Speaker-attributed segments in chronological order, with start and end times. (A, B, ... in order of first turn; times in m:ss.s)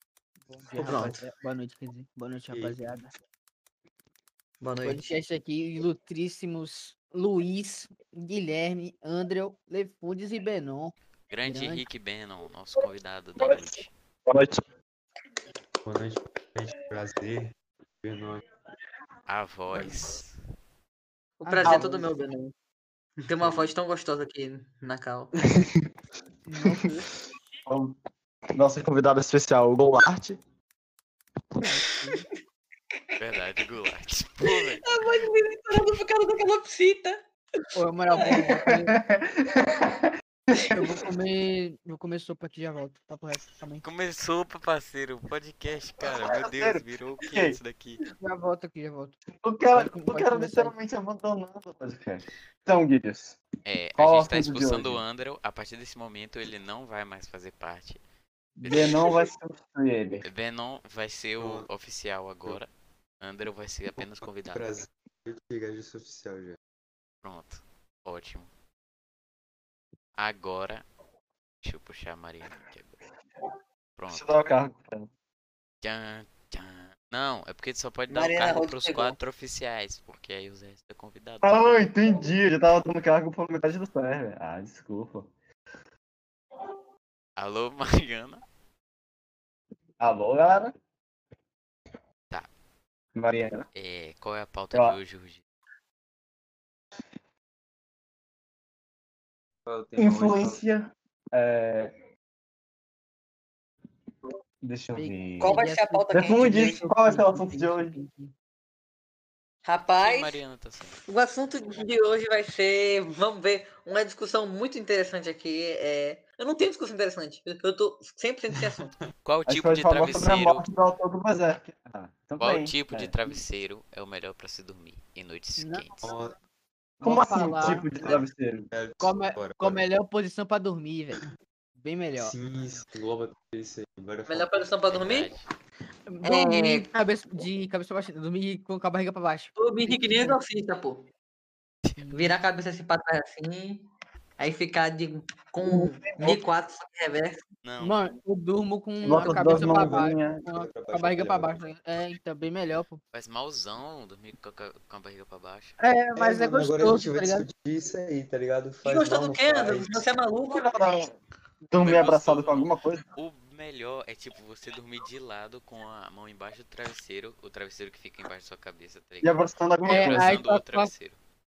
0:00.4-0:03.1 A
0:00.8-0:01.2 B
0:02.5-0:02.8 C
0:04.6-0:05.0 B
0:04.8-0:10.9 A
0:11.3-0:13.9 D
0:11.4-0:11.8 A
0:13.4-0:14.7 E
0:15.8-0:18.4 C
0:19.3-0:20.3 D
0:19.7-0:20.1 C
0:21.4-0:22.5 B
0:21.4-0:22.1 A
0:23.3-0:25.3 B
0:23.4-0:23.7 C
0:26.5-0:27.1 A
0:27.7-0:28.0 E
0:28.6-0:30.4 E
0:31.6-0:32.2 A
0:33.2-0:34.9 D
0:34.4-0:37.2 B
0:37.8-0:39.0 A
0:38.1-0:38.6 B
0:38.7-0:40.8 E
0:40.7-0:43.8 A
0:43.8-0:48.0 D
0:46.2-0:47.6 E
0:48.2-0:49.2 A
0:49.3-0:53.4 E
0:49.7-0:50.7 A
0:53.6-0:58.0 D
0:54.0-0:55.0 E
0:58.6-1:00.3 E
0:58.7-0:59.1 D
1:00.2-1:04.6 D
1:01.4-1:01.6 C
1:04.0-1:06.6 C
1:07.2-1:08.5 D
1:10.2-1:10.8 D
1:11.6-1:13.0 D
1:14.0-1:14.4 D
1:14.1-1:15.1 E
1:15.8-1:22.0 D
1:18.1-1:19.2 B
1:21.4-1:25.3 E
1:27.4-1:28.4 D
1:30.0-1:30.8 E
1:33.2-1:33.7 E
1:33.8-1:35.4 D
1:34.7-1:35.0 E
1:39.7-1:40.6 C
1:40.0-1:41.9 E
1:44.6-1:45.6 E
1:45.0-1:48.3 A
1:45.4-1:46.8 B
1:46.1-1:48.0 E
1:49.6-1:50.4 B
1:50.0-1:51.0 D
1:51.1-1:58.9 B
1:58.5-1:59.0 C
1:59.2-2:00.6 D
1:59.5-2:03.2 E
2:02.4-2:06.1 D
2:05.6-2:06.2 A
2:06.0-2:06.4 C
2:07.0-2:08.7 E
2:07.0-2:07.9 A
2:07.6-2:09.8 C
2:09.0-2:11.2 A
2:11.8-2:12.4 A
2:12.2-2:14.7 C
2:14.3-2:15.4 B
2:14.9-2:15.4 D
2:16.1-2:20.4 A
2:16.2-2:16.9 B
2:19.6-2:21.0 B
2:21.8-2:22.1 D
2:22.0-2:22.3 A
2:22.1-2:23.9 B
2:24.4-2:27.5 B
2:25.6-2:26.4 E
2:27.6-2:28.2 D
2:27.8-2:33.0 A
2:29.0-2:30.4 E
2:29.0-2:31.6 C
2:33.1-2:35.8 D
2:35.8-2:37.5 A
2:36.2-2:40.1 C
2:38.8-2:40.7 B
2:40.5-2:41.2 E
2:41.7-2:43.0 E
2:41.8-2:51.2 D
2:49.2-2:50.3 E
2:49.9-2:50.9 A